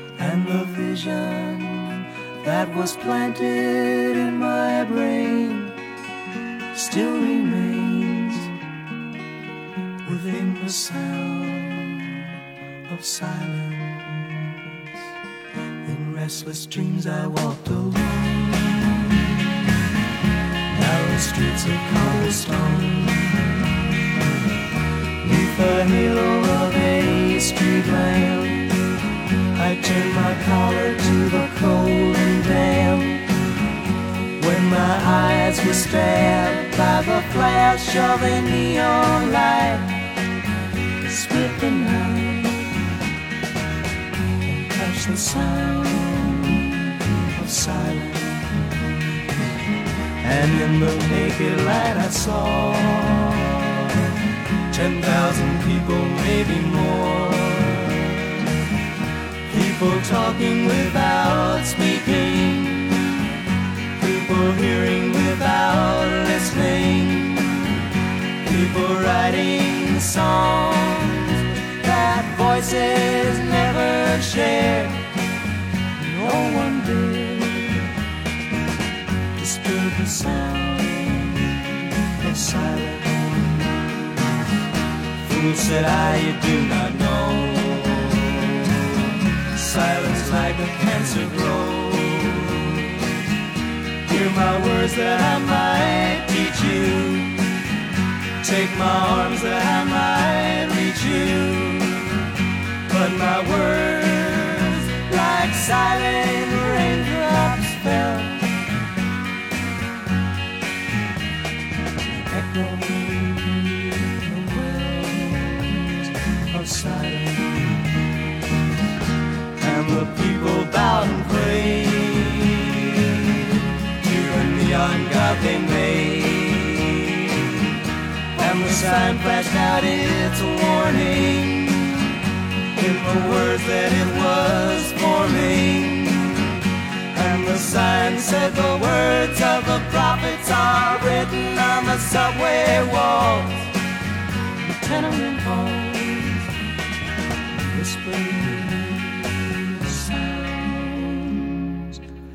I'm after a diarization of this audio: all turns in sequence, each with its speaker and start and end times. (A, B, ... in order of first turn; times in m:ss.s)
0:00.2-0:05.8 A
0:06.7-0:08.5 A
0:10.0-0:12.4 A
0:12.9-0:14.7 A
0:15.8-0:19.6 A
0:20.7-0:24.1 A
0:25.2-0:28.8 A
0:29.5-0:33.3 A
0:34.4-0:40.2 A
0:41.0-0:42.8 A
0:44.4-0:58.6 A
0:59.5-1:03.4 A
1:04.0-1:07.9 A
1:08.4-1:15.1 A
1:16.0-1:18.0 A
1:19.3-1:24.0 A
1:25.2-1:33.2 A
1:34.0-1:37.5 A
1:38.4-1:42.3 A
1:42.9-1:48.5 A
1:52.3-1:58.0 A
1:59.6-2:07.8 A
2:08.3-2:23.7 A
2:24.6-2:26.5 A
2:27.5-2:32.0 A